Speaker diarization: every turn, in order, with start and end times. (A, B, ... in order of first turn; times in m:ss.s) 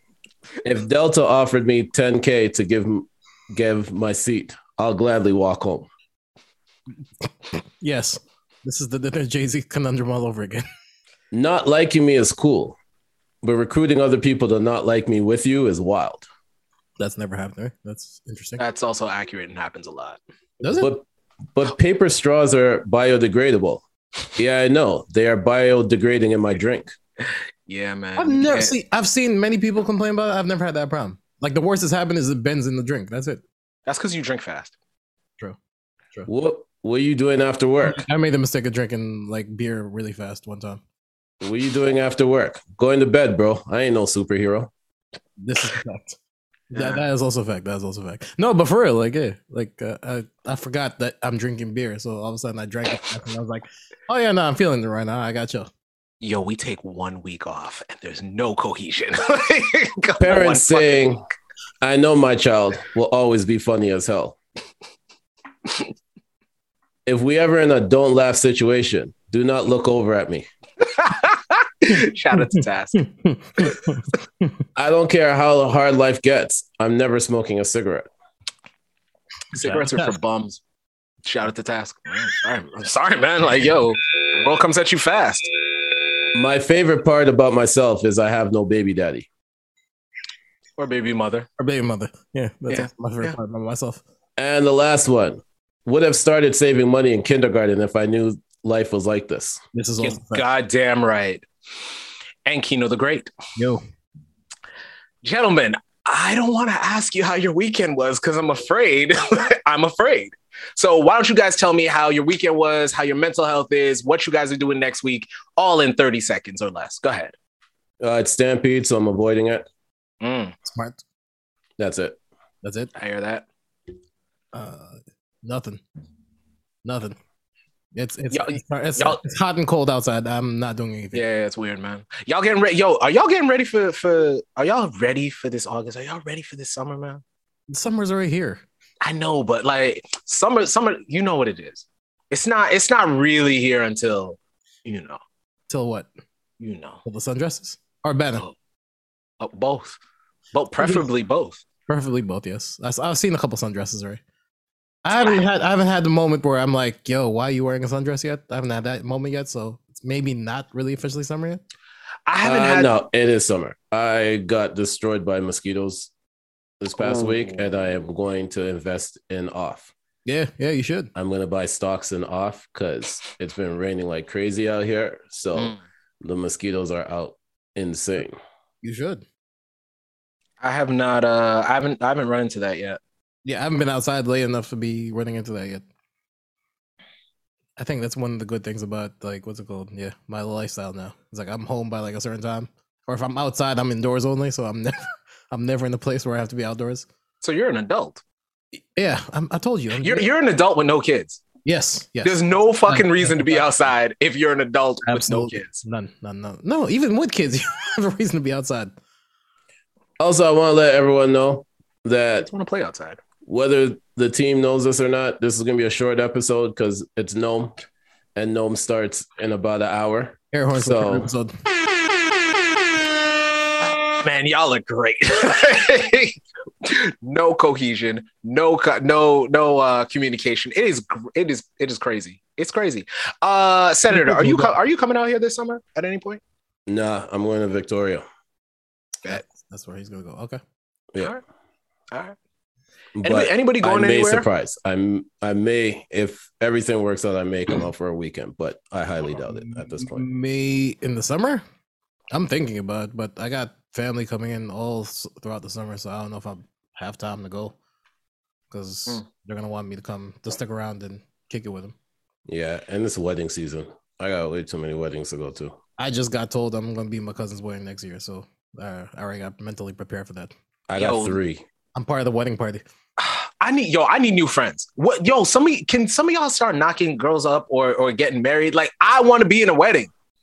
0:00.6-0:05.9 A
0:07.8-0:10.6 B
0:11.3-0:12.8 A
0:13.4-0:16.2 A
0:17.0-0:18.6 B
0:18.6-0:20.2 C
0:20.6-0:20.9 B
0:20.8-0:23.8 A
0:24.4-0:26.9 A
0:27.7-0:28.7 C
0:28.2-0:33.4 B
0:33.8-0:34.7 C
0:36.3-0:38.0 A
0:37.8-0:40.8 B
0:41.4-0:44.7 A
0:45.4-0:46.2 B
0:46.7-0:47.0 C
0:46.7-0:55.7 B
0:56.2-1:01.0 C
1:00.2-1:01.2 A
1:01.8-1:04.4 A
1:07.0-1:10.5 A
1:10.9-1:13.0 C
1:12.5-1:14.0 B
1:14.8-1:18.0 A
1:19.5-1:20.1 B
1:19.5-1:20.6 C
1:21.2-1:25.5 C
1:26.3-1:29.3 A
1:30.8-1:31.5 C
1:31.6-1:34.0 B
1:32.7-1:33.4 C
1:34.4-1:39.6 A
1:39.7-1:40.4 B
1:40.0-1:41.4 C
1:42.4-1:43.3 C
1:43.6-1:43.8 B
1:45.2-1:57.3 C
1:58.0-1:59.6 A
2:00.2-2:00.5 C
2:00.6-2:01.0 B
2:01.8-2:02.2 A
2:02.6-2:02.9 B
2:02.9-2:03.4 C
2:04.5-2:05.8 B
2:06.8-2:07.2 B
2:07.9-2:11.2 B
2:08.3-2:09.2 C
2:11.1-2:17.2 C
2:17.7-2:18.6 B
2:19.0-2:25.2 C
2:25.7-2:26.1 B
2:26.6-2:27.0 C
2:27.0-2:28.4 B
2:29.4-2:30.0 C
2:30.5-2:31.6 C
2:30.8-2:31.1 B
2:31.9-2:34.2 B
2:35.0-2:41.6 B
2:35.2-2:35.4 C
2:42.3-2:42.9 C
2:42.4-2:46.1 A
2:46.8-2:49.9 A
2:50.2-2:51.1 B
2:51.1-2:58.4 A
2:58.8-2:59.2 B
3:00.6-3:03.0 C
3:03.4-3:05.8 B
3:07.8-3:17.1 B
3:17.4-3:18.2 C
3:19.0-3:20.3 B
3:20.0-3:21.4 C
3:21.6-3:23.9 B
3:22.2-3:25.8 C
3:25.1-3:28.9 B
3:30.2-3:32.5 A
3:32.4-3:33.2 C
3:33.4-3:37.8 A
3:38.4-3:41.3 A
3:40.5-3:41.5 B
3:44.1-3:56.4 C
3:54.1-3:54.8 B
3:56.9-3:58.2 A
3:59.3-4:00.6 B
4:02.1-4:02.4 C
4:03.2-4:10.2 A
4:03.2-4:04.5 C
4:09.5-4:11.6 B
4:12.3-4:17.8 B
4:18.7-4:21.9 B
4:22.5-4:25.8 A
4:26.0-4:30.5 B
4:30.9-4:31.6 A
4:31.0-4:31.4 C
4:31.9-4:32.8 B
4:33.2-4:40.1 C